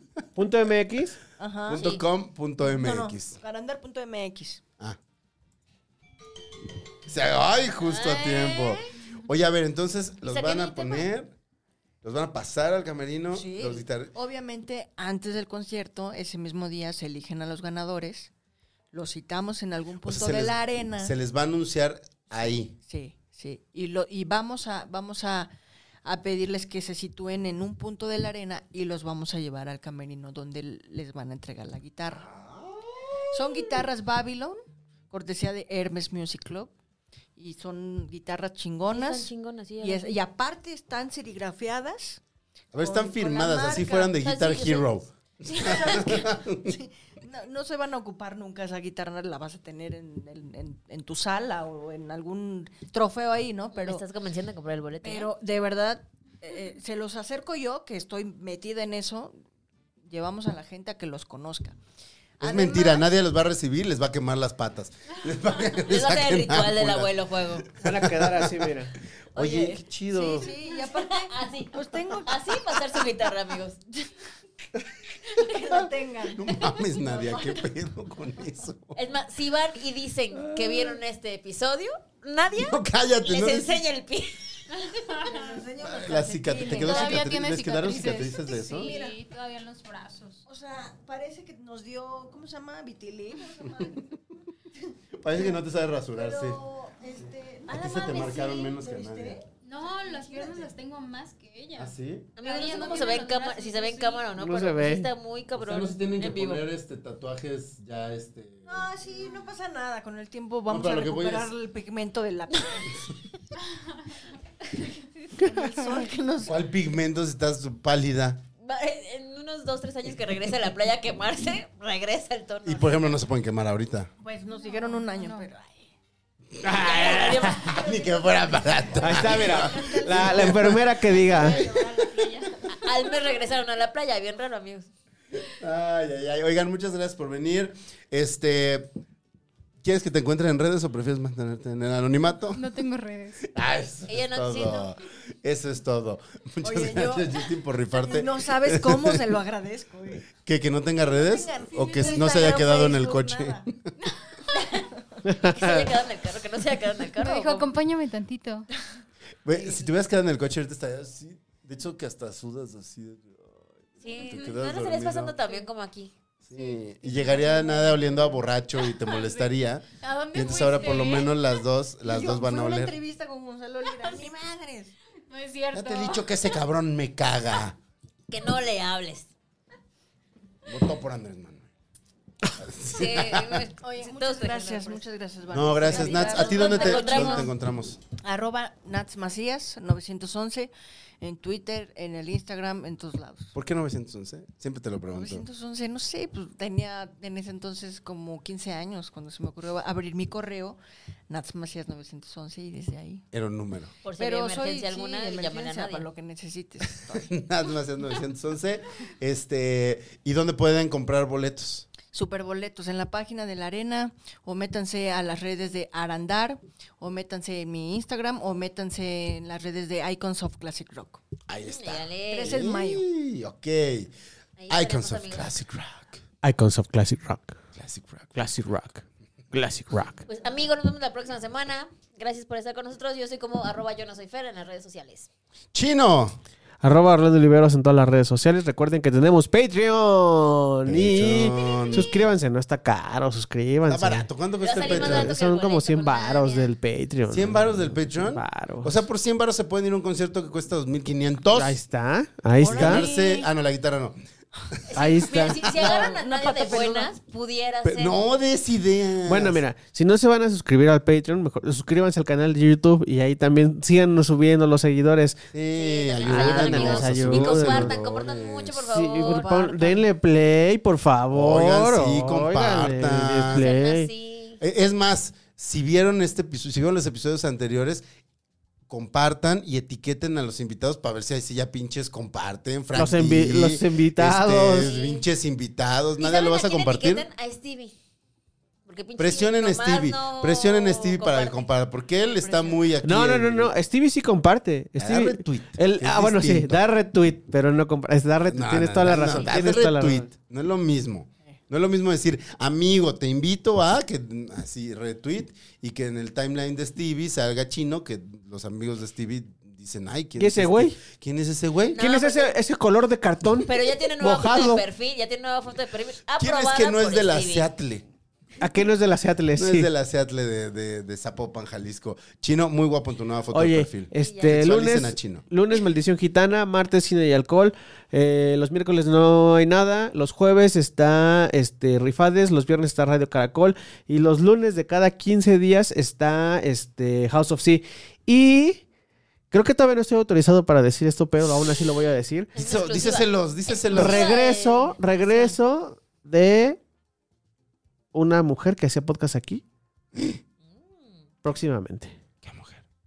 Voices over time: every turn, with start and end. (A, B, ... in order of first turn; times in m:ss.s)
0:00.4-0:01.2 A
0:01.4-0:01.9 B
0:01.7-0:03.4 C
0:01.7-0:02.0 D
0:02.6-0:04.6 B
0:07.0-0:11.4 C
0:07.8-0:08.8 D
0:10.2-0:11.1 D
0:12.0-0:14.1 C
0:13.3-0:18.3 B
0:18.9-0:21.1 B
0:20.0-0:22.8 C
0:22.8-0:25.5 B
0:26.0-0:32.3 B
0:32.2-0:33.4 C
0:33.3-0:34.6 B
0:35.1-0:36.7 B
0:37.4-0:39.3 B
0:38.9-0:40.2 D
0:39.8-0:42.2 B
0:42.7-0:46.7 C
0:42.8-0:44.2 B
0:44.2-0:45.0 D
0:45.5-0:54.0 B
0:53.8-0:55.3 D
0:55.0-0:59.4 B
1:00.0-1:01.8 B
1:02.4-1:03.1 B
1:02.4-1:10.5 C
1:05.8-1:07.7 D
1:07.8-1:08.9 A
1:09.4-1:09.8 D
1:10.1-1:13.0 B
1:10.7-1:13.8 D
1:15.3-1:17.6 B
1:15.7-1:19.0 C
1:19.0-1:24.7 D
1:20.3-1:21.0 C
1:22.6-1:23.8 C
1:25.0-1:25.4 E
1:25.2-1:27.2 B
1:25.8-1:28.9 C
1:26.7-1:30.4 E
1:28.8-1:29.2 B
1:30.5-1:34.1 B
1:35.2-1:36.6 C
1:36.1-1:40.7 B
1:37.7-1:39.4 C
1:37.8-1:38.1 D
1:39.6-1:44.3 E
1:41.8-1:42.3 C
1:42.4-1:46.7 D
1:44.4-1:45.1 A
1:45.6-1:48.9 C
1:48.7-1:53.2 B
1:50.7-1:51.5 C
1:55.4-1:56.6 B
1:56.4-1:58.4 C
1:58.6-2:03.1 D
2:02.6-2:04.1 C
2:04.2-2:05.9 B
2:04.5-2:05.5 E
2:06.6-2:07.6 A
2:06.6-2:11.8 C
2:06.8-2:07.8 D
2:07.5-2:12.7 B
2:09.0-2:11.6 A
2:11.3-2:12.6 E
2:12.7-2:14.9 D
2:15.5-2:18.9 C
2:19.8-2:22.6 C
2:22.5-2:23.5 E
2:23.4-2:29.2 C
2:24.1-2:24.9 D
2:26.6-2:30.3 B
2:30.4-2:33.8 C
2:31.0-2:33.7 B
2:34.5-2:37.7 D
2:35.3-2:35.9 A
2:37.2-2:38.7 E
2:39.4-2:45.4 C
2:44.0-2:46.1 D
2:46.5-2:53.0 C
2:46.5-2:48.4 E
2:48.9-2:51.4 E
2:52.0-2:55.0 B
2:55.3-2:56.3 E
2:55.7-2:57.8 C
2:58.3-2:59.3 D
3:00.7-3:01.7 C
3:02.5-3:03.7 C
3:02.9-3:05.0 D
3:03.8-3:07.5 B
3:05.5-3:08.0 C
3:05.9-3:07.5 D
3:08.2-3:13.5 B
3:13.5-3:15.5 C
3:15.1-3:23.3 B
3:23.3-3:23.9 C
3:24.0-3:26.1 D
3:24.2-3:27.3 B
3:27.1-3:31.9 C
3:32.1-3:41.2 B
3:41.5-3:44.1 C
3:41.6-3:42.6 D
3:42.3-3:43.1 B
3:44.6-3:45.5 D
3:44.7-3:46.2 C
3:46.4-3:47.6 A
3:47.8-3:48.4 C
3:48.4-3:50.2 A
3:50.3-3:55.3 D
3:55.7-3:56.4 C
3:56.8-4:09.0 A
4:00.9-4:02.3 C
4:03.9-4:05.4 C
4:04.6-4:06.7 D
4:07.3-4:11.8 C
4:11.5-4:13.1 A
4:12.6-4:13.5 B
4:12.7-4:14.2 C
4:14.7-4:16.1 C
4:14.9-4:18.2 D
4:15.0-4:15.6 A
4:15.7-4:17.1 B
4:17.8-4:19.6 C
4:19.2-4:25.5 A
4:25.5-4:28.9 C
4:25.8-4:29.6 D
4:26.2-4:28.0 A
4:28.8-4:34.1 A
4:29.3-4:30.1 B
4:31.3-4:33.8 C
4:33.5-4:34.6 D
4:34.6-4:38.0 C
4:38.9-4:47.3 C
4:42.9-4:44.9 A
4:44.7-4:45.3 D
4:46.2-4:48.0 D
4:48.9-4:51.7 D
4:49.2-4:53.7 C
4:52.2-4:52.9 B
4:53.0-5:00.3 A
4:55.0-4:56.8 C
4:58.5-5:12.0 C
4:59.3-4:59.9 D
5:10.4-5:11.0 A
5:12.0-5:12.6 D
5:12.0-5:14.8 A
5:13.6-5:17.7 D
5:16.4-5:18.0 C
5:18.6-5:19.9 A
5:19.6-5:25.4 C
5:23.5-5:38.8 A
5:24.1-5:24.6 D
5:39.5-5:42.5 A
5:42.6-5:45.6 D
5:42.6-5:44.3 C
5:43.9-5:46.8 A
5:48.1-5:49.6 A
5:50.7-5:51.2 D
5:51.4-5:52.2 A
5:52.4-5:52.8 C